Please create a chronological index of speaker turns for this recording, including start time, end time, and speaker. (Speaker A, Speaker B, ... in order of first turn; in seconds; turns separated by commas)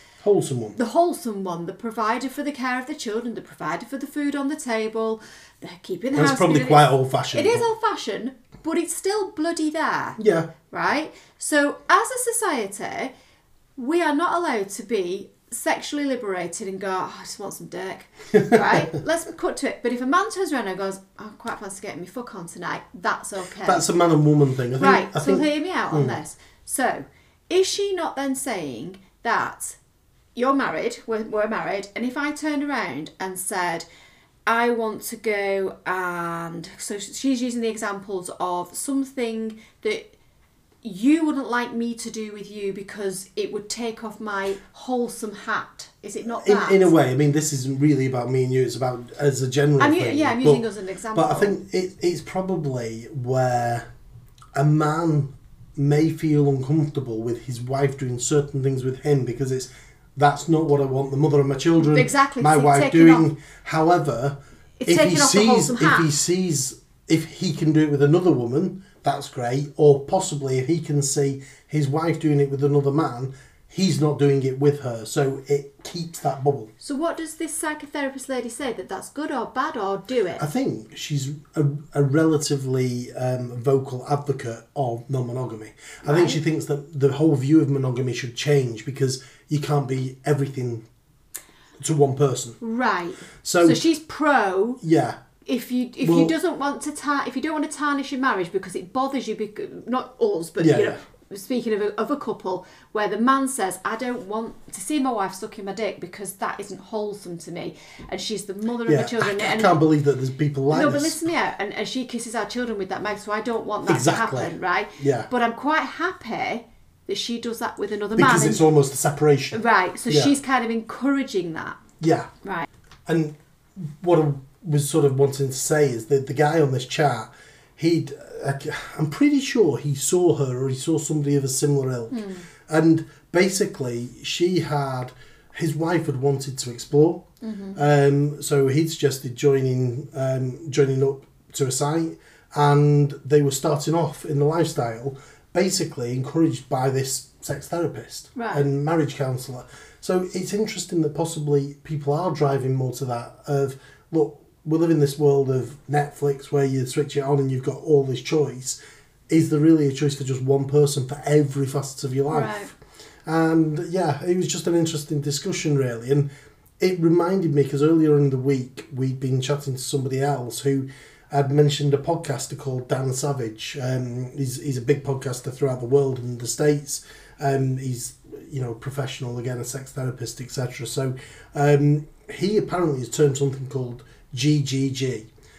Speaker A: 0.2-0.8, Speaker B: 0.7-10.2, Speaker A: 6.1-7.7, Speaker A: 10.2-10.5, Speaker B: 10.7-13.1, Speaker B: 13.8-23.8, Speaker A: 18.3-18.9, Speaker A: 23.6-26.2, Speaker B: 24.8-29.8, Speaker B: 30.4-33.9, Speaker B: 34.5-40.1, Speaker B: 40.8-46.9, Speaker A: 46.4-53.8, Speaker B: 49.8-51.5, Speaker A: 54.5-76.7, Speaker B: 61.8-63.2, Speaker B: 64.8-66.1, Speaker B: 76.8-80.4, Speaker A: 80.4-90.8, Speaker B: 86.0-86.4, Speaker A: 91.8-92.6, Speaker B: 92.6-94.8, Speaker A: 93.4-93.8, Speaker A: 94.8-95.2, Speaker B: 95.5-109.8, Speaker A: 96.0-96.3, Speaker A: 100.6-101.0, Speaker A: 108.9-111.2, Speaker B: 110.7-118.6, Speaker A: 113.8-115.3, Speaker A: 118.2-120.3, Speaker B: 119.5-121.8, Speaker A: 122.0-122.3, Speaker A: 123.0-158.8, Speaker B: 132.1-132.4, Speaker B: 137.4-137.8, Speaker B: 148.3-148.6, Speaker A: 159.3-166.3, Speaker B: 162.3-162.7, Speaker A: 166.8-185.3